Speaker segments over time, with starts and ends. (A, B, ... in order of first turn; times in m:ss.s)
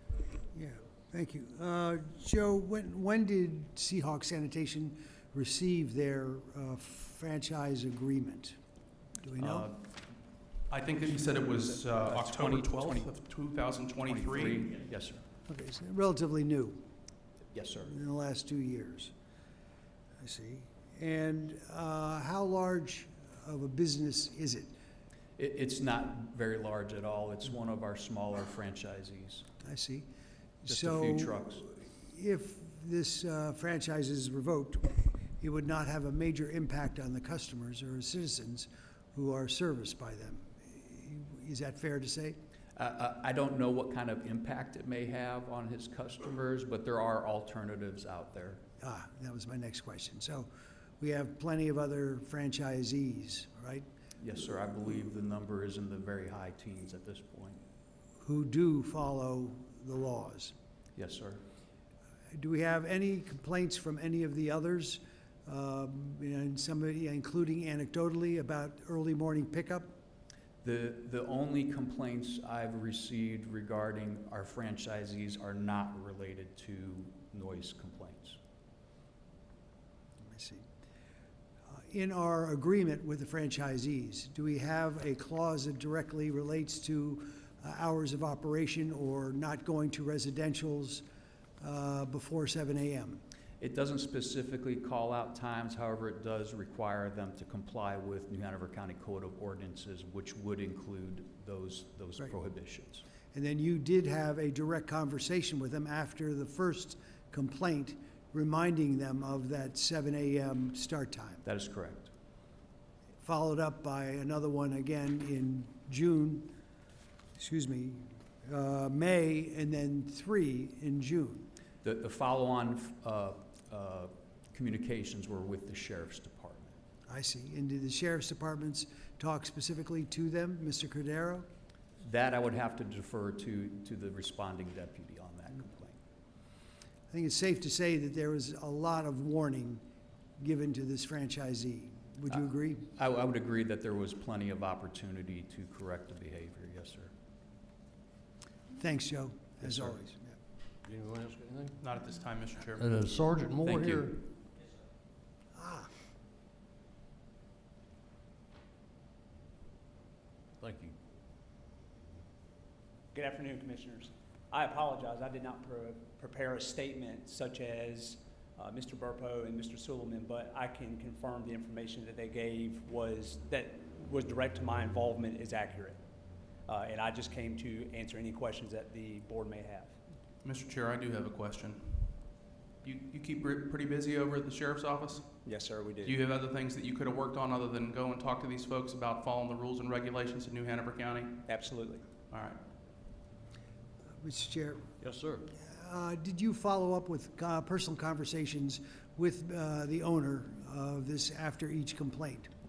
0:00.5-0:08.6 A
0:09.2-0:09.7 A
0:09.4-0:09.8 B
0:10.7-0:14.7 C
0:11.8-0:13.1 B
0:14.0-0:15.2 B
0:15.5-0:16.8 A
0:17.5-0:17.9 B
0:17.8-0:19.1 A
0:20.2-0:24.7 A
0:25.4-0:29.4 B
0:29.6-0:30.1 A
0:30.6-0:42.4 A
0:30.7-0:31.6 B
0:42.7-0:48.6 B
0:48.8-0:50.5 A
0:51.0-0:53.8 A
0:54.2-0:57.6 B
0:58.2-1:00.5 A
1:01.0-1:01.4 B
1:02.3-1:09.9 A
1:10.6-1:18.4 B
1:20.2-1:20.6 A
1:21.7-1:31.0 A
1:31.6-1:33.2 A
1:33.6-1:43.0 B
1:43.3-1:51.4 A
1:51.4-1:52.1 B
1:53.2-1:56.6 A
1:57.4-2:01.5 A
2:01.8-2:06.7 B
2:07.1-2:11.4 A
2:12.0-2:16.0 B
2:17.1-2:19.8 A
2:20.4-2:22.9 A
2:22.9-2:27.1 B
2:28.7-2:30.4 A
2:30.8-2:31.8 D
2:31.8-2:32.9 C
2:32.7-2:34.2 D
2:33.6-2:34.1 B
2:35.5-2:35.9 A
2:40.6-2:41.0 D
2:43.1-2:56.0 E
2:56.7-3:00.0 E
3:00.4-3:02.2 C
3:02.8-3:05.4 C
3:05.4-3:06.2 E
3:06.0-3:11.4 C
3:11.5-3:12.0 E
3:12.2-3:12.6 C
3:14.2-3:14.8 A
3:15.0-3:15.5 D
3:15.6-3:22.5 A